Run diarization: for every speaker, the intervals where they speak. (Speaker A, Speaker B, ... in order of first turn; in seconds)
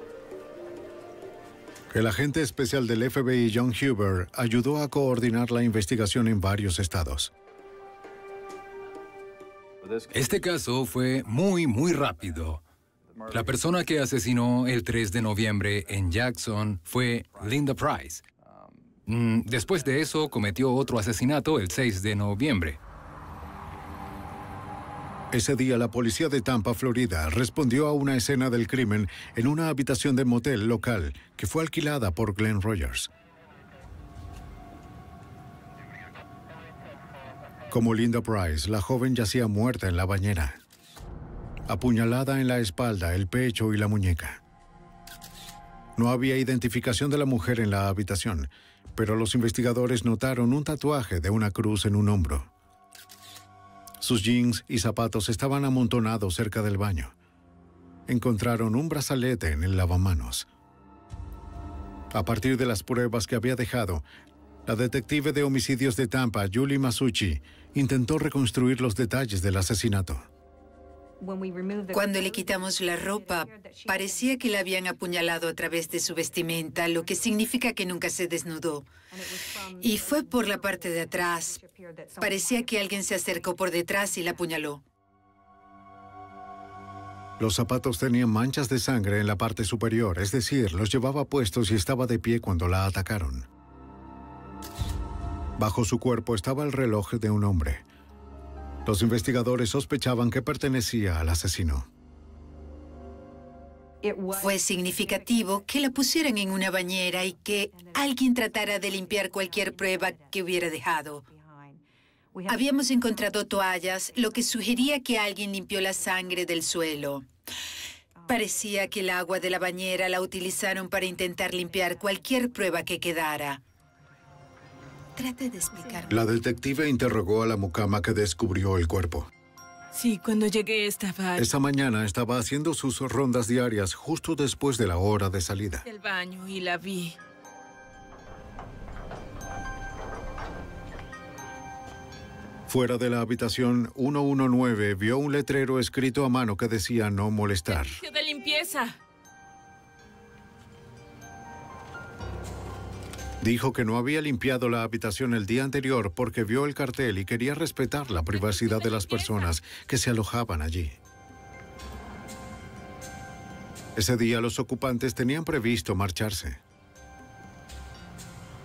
Speaker A: 1.9-7.3, 25.3-33.1, 37.7-40.6, 41.7-44.4, 46.0-52.5, 54.0-57.1, 58.1-60.5, 62.1-64.0, 64.7-70.3, 87.4-93.5, 95.6-97.8, 98.9-101.9, 126.1-129.3, 131.4-135.8, 142.7-148.0, 153.4-161.0, 164.0-166.6
Speaker B: 10.1-12.6, 13.3-18.2, 19.1-22.8
Speaker C: 71.9-78.9, 79.8-81.6, 82.2-84.8, 104.3-111.3, 112.5-117.3, 118.3-123.6, 125.2-126.3
Speaker D: 129.9-131.5, 135.8-137.2, 147.7-149.0, 158.3-159.6